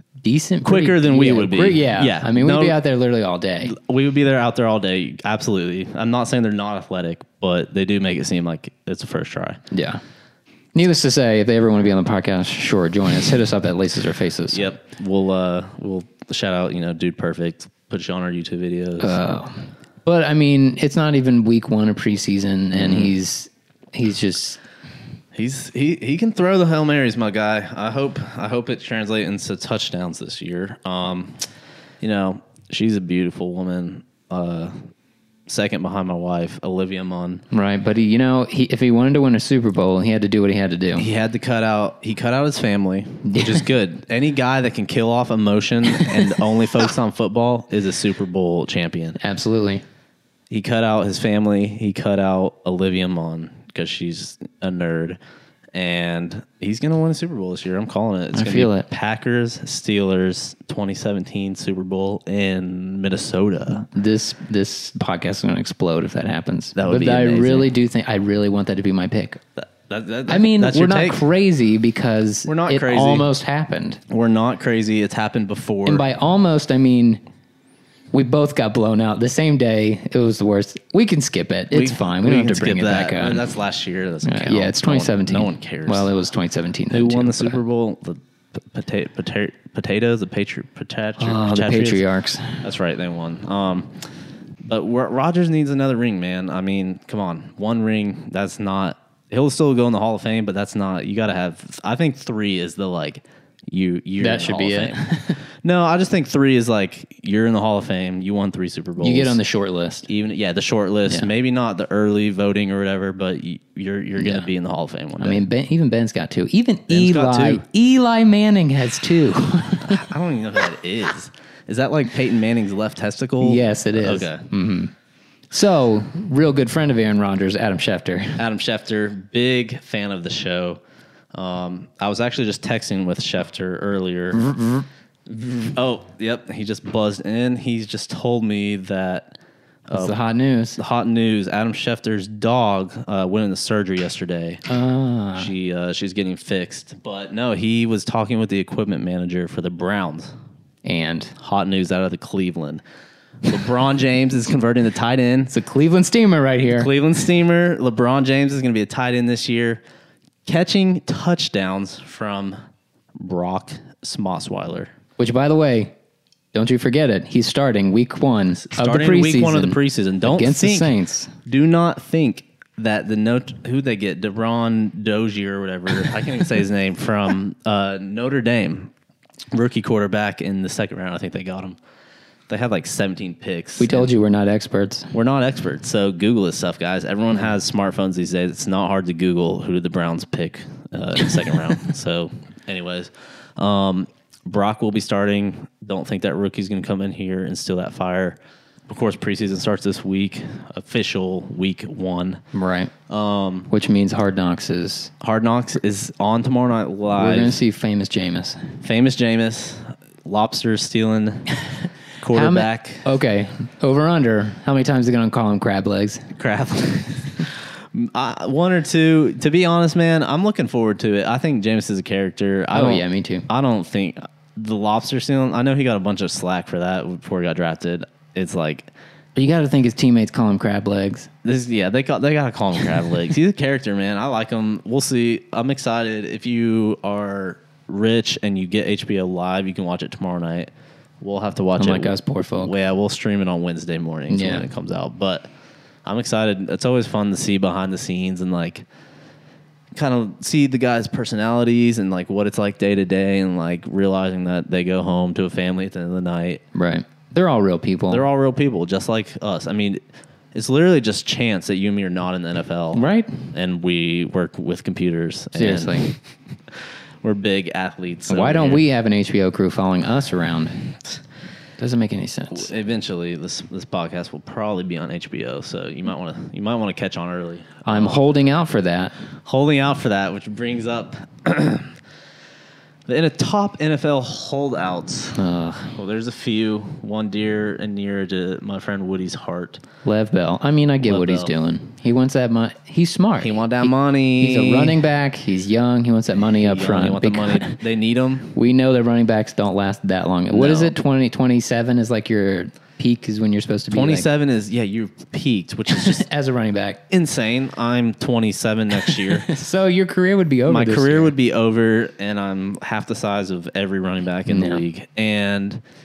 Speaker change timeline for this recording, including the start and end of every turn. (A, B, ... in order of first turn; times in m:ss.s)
0:00.2-0:03.7 A
0:00.6-0:02.8 B
0:03.6-0:09.6 B
0:09.7-0:10.0 A
0:10.8-0:14.7 A
0:14.5-0:19.2 B
0:19.0-0:24.6 A
0:22.8-0:23.1 B
0:25.4-0:31.4 B
0:32.0-0:34.8 B
0:35.5-0:37.4 B
0:37.5-0:41.1 A
0:41.0-0:49.2 B
0:43.3-0:43.6 A
0:49.2-0:49.8 A
0:50.5-0:55.2 B
0:55.8-1:03.9 B
0:58.3-0:58.9 A
1:03.9-1:09.4 A
1:06.8-1:07.7 B
1:09.6-1:11.2 B
1:10.3-1:14.0 A
1:12.5-1:13.3 B
1:14.1-1:16.1 B
1:15.9-1:17.2 A
1:18.1-1:23.4 A
1:21.7-1:26.1 B
1:24.2-1:27.6 A
1:26.9-1:32.0 B
1:31.2-1:32.6 A
1:32.6-1:33.9 B
1:34.6-1:45.1 B
1:44.2-1:45.4 A
1:45.6-1:49.4 B
1:49.0-1:50.1 A
1:50.1-1:55.4 B
1:54.2-1:54.5 A
1:55.2-2:00.1 A
1:56.9-1:57.6 B
1:59.8-2:04.5 B
2:03.4-2:04.9 A
2:05.5-2:08.4 A
2:08.4-2:10.8 B
2:11.3-2:14.6 B
2:14.3-2:14.9 A
2:15.3-2:19.4 B
2:19.9-2:20.2 B
2:19.9-2:20.8 A
2:20.8-2:24.6 B
2:24.7-2:25.5 A
2:25.4-2:30.3 B
2:30.8-2:31.3 A
2:31.4-2:32.8 B
2:33.4-2:35.5 B
2:35.5-2:36.9 A
2:36.7-2:39.8 B
2:40.4-2:42.6 B
2:43.2-2:44.9 B
2:45.2-2:45.9 A
2:46.5-2:51.3 A
2:48.6-2:50.9 B
2:51.4-2:58.9 B
2:59.5-3:01.8 B
3:02.5-3:04.1 B
3:03.8-3:05.1 A
3:05.1-3:18.4 B
3:18.9-3:22.4 B
3:22.5-3:22.9 A
3:23.1-3:23.7 B
3:23.7-3:25.1 A
3:25.2-3:27.6 B
3:27.2-3:28.6 A
3:28.8-3:31.6 B
3:32.2-3:33.1 B
3:32.3-3:36.3 A
3:36.4-3:48.9 B
3:42.7-3:43.5 A
3:49.4-3:51.3 A
3:51.4-4:05.5 B
4:01.8-4:02.7 A
4:04.3-4:04.7 A
4:06.0-4:08.8 B
4:10.0-4:16.6 B
4:16.7-4:18.2 A
4:18.1-4:20.0 B
4:20.5-4:26.2 B
4:22.9-4:23.4 A
4:25.6-4:26.1 A
4:27.2-4:28.8 B
4:28.3-4:30.9 A
4:31.8-4:32.7 A
4:32.5-4:38.2 B
4:37.9-4:39.2 A
4:39.4-4:42.0 B
4:43.1-4:49.8 B
4:45.4-4:46.0 A
4:50.0-4:57.8 A
4:51.0-4:51.5 B
4:53.4-4:55.0 B
4:56.6-4:58.5 B
4:58.5-5:04.3 A
5:00.5-5:01.0 B
5:03.9-5:06.3 B
5:05.9-5:07.0 A
5:07.1-5:09.5 B
5:09.0-5:11.3 A
5:10.7-5:15.8 B
5:14.5-5:14.8 A